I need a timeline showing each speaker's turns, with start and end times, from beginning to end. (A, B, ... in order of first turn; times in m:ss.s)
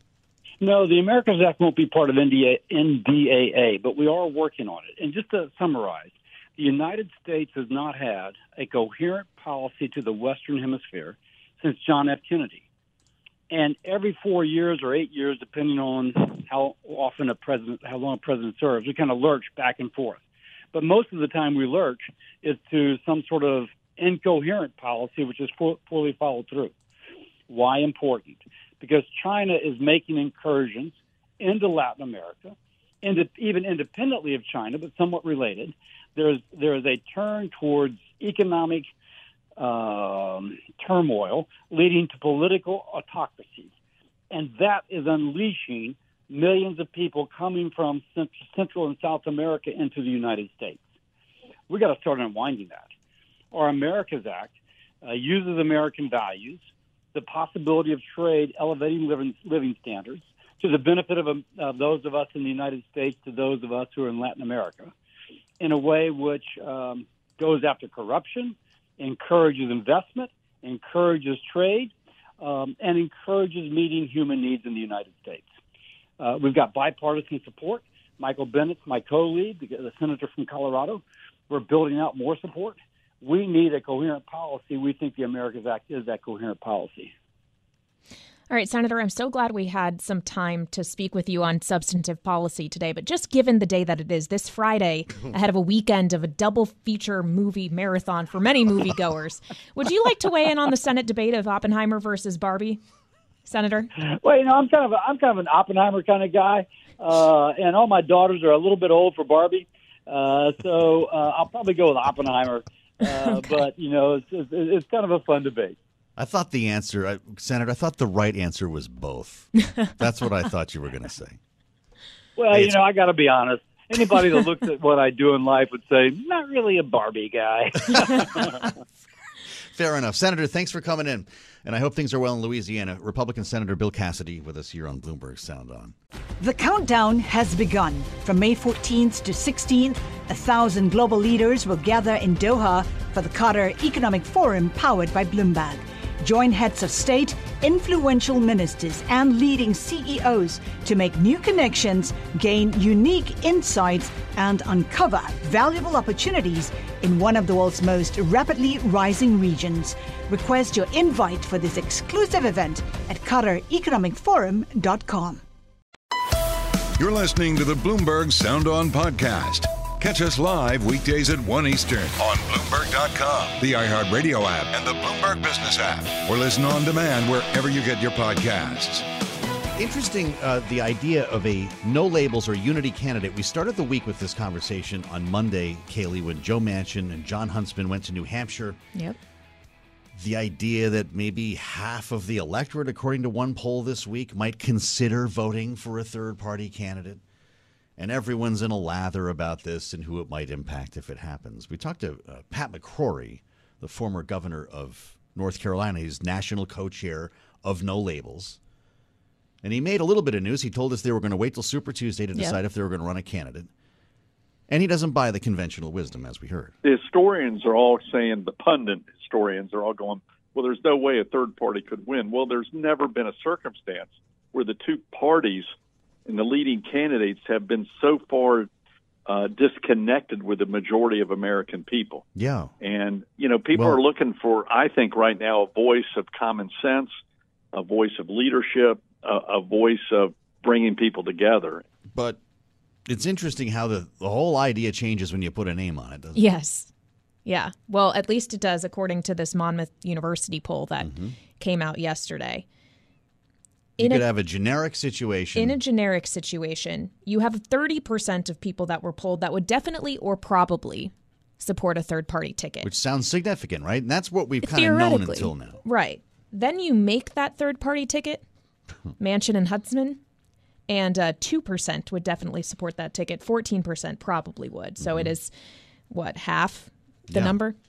0:00.6-0:12.6 A
0:13.5-0:20.2 A
0:20.7-0:26.7 A
0:27.5-0:38.9 A
0:39.6-0:43.7 A
0:44.3-0:50.8 A
0:51.7-0:52.9 A
0:53.5-0:56.6 A
0:57.1-1:04.9 A
1:05.6-1:15.5 A
1:16.2-1:27.1 A
1:28.5-1:42.8 B
1:43.5-1:43.9 B
1:44.0-1:55.8 A
1:53.2-1:53.6 B
1:56.2-2:01.4 C
2:02.4-2:08.7 A
2:02.5-2:02.8 C
2:09.7-2:16.0 C
2:16.4-2:45.4 D
2:47.0-2:59.1 E
2:59.8-3:08.8 C
3:10.2-3:17.2 C
3:18.0-3:28.6 C
3:29.6-3:33.7 C
3:34.7-3:36.7 C
3:36.8-3:45.7 F
3:46.3-3:48.7 F
3:49.3-3:52.2 F
3:52.4-3:52.7 C
3:52.8-3:57.1 F
3:53.7-3:54.0 C
3:57.7-4:01.8 F
4:02.1-4:02.4 C
4:03.1-4:06.4 C
4:06.4-4:06.9 B
4:07.4-4:12.7 B
4:11.0-4:11.4 C
4:14.0-4:14.3 B
4:14.0-4:15.8 C
4:15.6-4:22.9 B
4:22.8-4:25.8 C
4:24.6-4:28.4 B
4:29.2-4:30.2 B
4:30.9-4:35.5 B
4:35.0-4:35.3 C
4:36.1-4:37.8 B
4:37.3-4:37.6 C